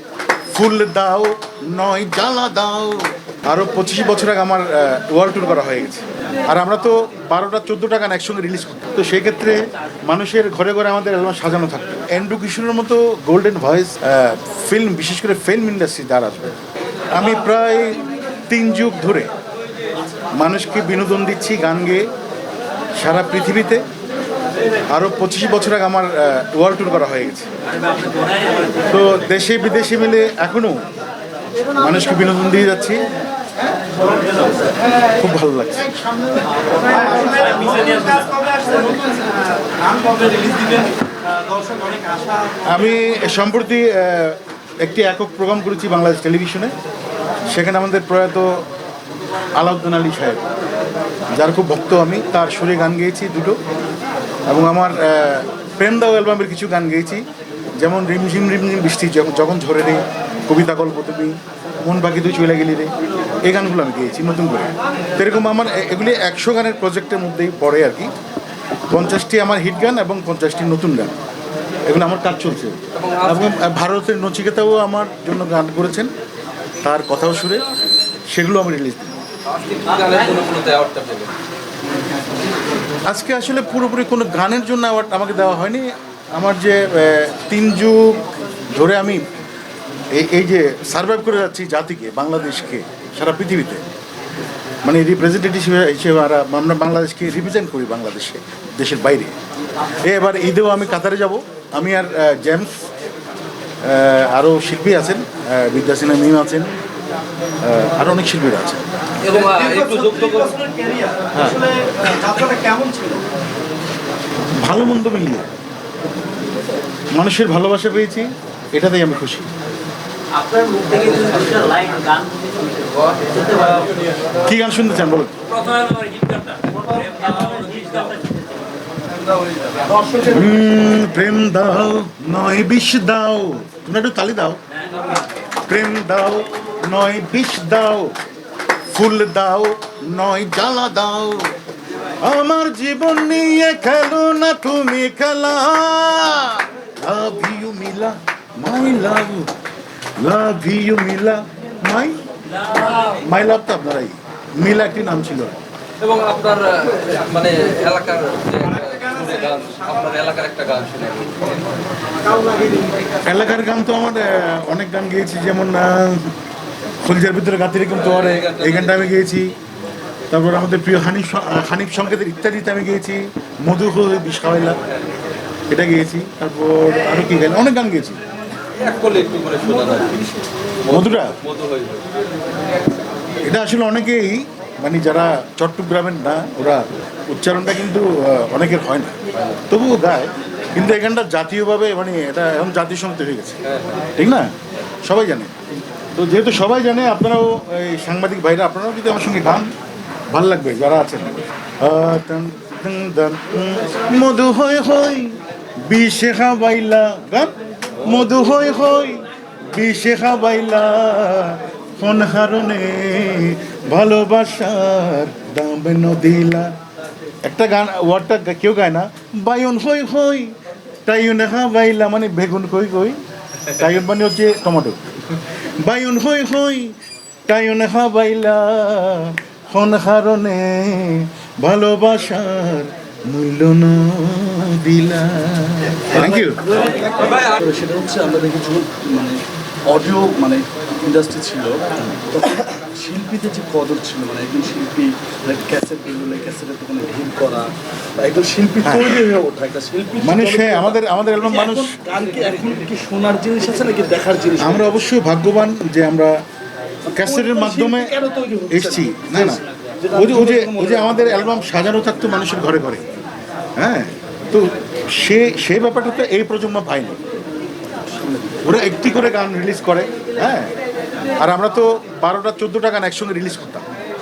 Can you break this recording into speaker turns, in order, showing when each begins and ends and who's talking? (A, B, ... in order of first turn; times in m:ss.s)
0:00.5-0:16.6 A
0:17.1-0:19.3 A
0:20.4-0:22.1 A
0:23.0-0:23.8 A
0:24.9-0:27.5 A
0:28.8-0:30.8 A
0:31.8-0:33.0 A
0:35.1-0:36.0 A
0:37.0-0:37.6 A
0:40.3-0:40.8 B
0:42.6-0:46.8 A
0:47.5-0:48.6 A
0:49.6-0:50.5 A
0:51.3-0:53.6 A
0:54.5-0:57.3 A
0:57.8-1:02.9 A
1:03.4-1:08.1 A
1:08.9-1:11.2 A
1:11.9-1:16.1 A
1:12.9-1:13.5 C
1:16.8-1:17.6 A
1:18.3-1:19.2 A
1:19.5-1:21.3 C
1:23.0-1:29.2 A
1:30.1-1:33.8 A
1:34.8-1:39.4 A
1:40.0-1:42.9 A
1:43.8-1:46.7 A
1:47.6-1:48.8 A
1:49.2-1:50.6 C
1:49.2-1:53.3 B
1:54.6-1:55.5 A
1:57.1-1:59.5 A
2:00.8-2:01.6 C
2:04.4-2:05.4 A
2:05.6-2:06.6 C
2:07.1-2:08.2 C
2:07.5-2:07.9 B
2:09.7-2:10.4 B
2:10.2-2:14.6 A
2:15.7-2:18.2 A
2:18.9-2:21.5 A
2:22.2-2:29.5 A
2:30.2-2:35.6 A
2:36.0-2:41.7 C
2:42.4-2:42.8 C
2:43.2-2:46.3 A
2:47.0-2:49.5 A
2:48.0-2:49.1 C
2:50.3-2:54.8 A
2:55.7-2:58.2 A
2:58.8-3:00.3 C
3:00.8-3:02.1 C
3:00.9-3:01.4 A
3:03.4-3:09.2 A
3:09.7-3:13.6 A
3:14.2-3:14.5 A
3:15.0-3:15.5 A
3:16.2-3:19.7 A
3:20.3-3:36.7 A
3:37.4-3:40.5 A
3:41.0-3:46.9 A
3:47.5-3:56.7 A
3:56.2-4:15.0 B
4:08.8-4:09.3 A
4:10.2-4:12.0 A
4:14.6-4:16.4 A
4:17.1-4:21.6 B
4:17.1-4:18.1 A
4:18.7-4:19.6 A
4:20.2-4:23.0 A
4:23.8-4:27.2 A
4:28.1-4:28.6 B
4:28.6-4:30.7 A
4:31.4-4:33.8 A